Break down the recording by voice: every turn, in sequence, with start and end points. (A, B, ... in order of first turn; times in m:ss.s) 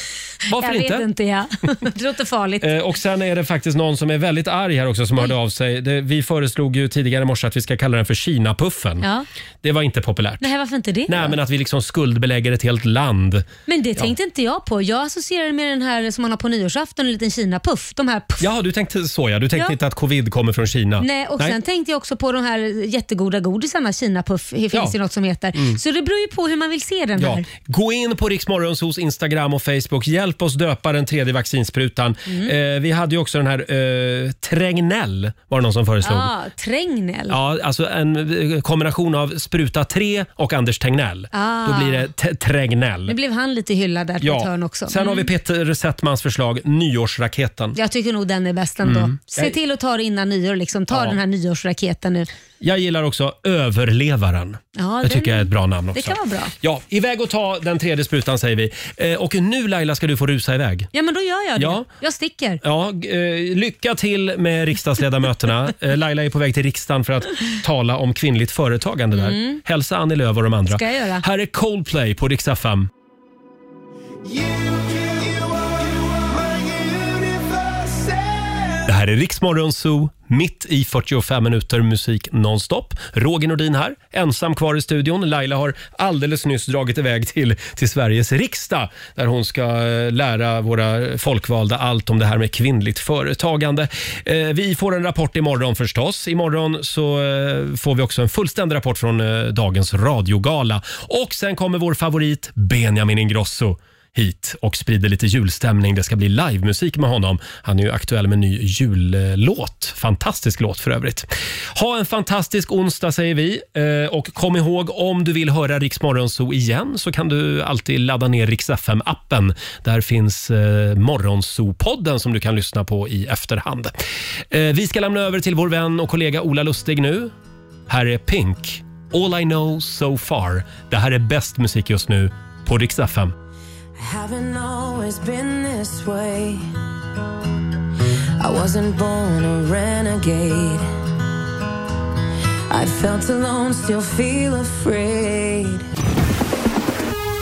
0:00.4-0:01.1 A
0:00.6-0:02.7 B
0:02.6-0:09.0 A
0:09.0-0:09.2 B
0:09.6-0:10.5 A
0:10.4-0:11.4 B
0:11.1-0:14.1 A
0:13.7-0:18.5 B
0:18.4-0:21.6 A
0:21.0-0:27.4 B
0:25.5-0:25.8 A
0:27.2-0:36.3 A
0:32.3-0:32.5 B
0:36.0-0:37.4 B
0:37.3-0:43.1 A
0:41.3-0:42.0 B
0:43.1-0:45.3 B
0:44.2-0:47.8 A
0:47.8-0:52.3 B
0:48.8-0:49.5 A
0:50.9-0:51.2 A
0:52.6-1:00.9 A
0:54.8-0:56.5 B
1:00.9-1:02.6 B
1:01.6-1:01.9 A
1:02.6-1:12.9 A
1:09.1-1:09.6 B
1:10.7-1:11.2 B
1:14.2-1:18.8 C
1:18.8-2:03.9 A
2:04.5-2:07.3 A
2:07.9-2:13.3 A
2:14.0-2:16.7 C
2:18.4-2:20.9 C
2:22.7-2:25.8 C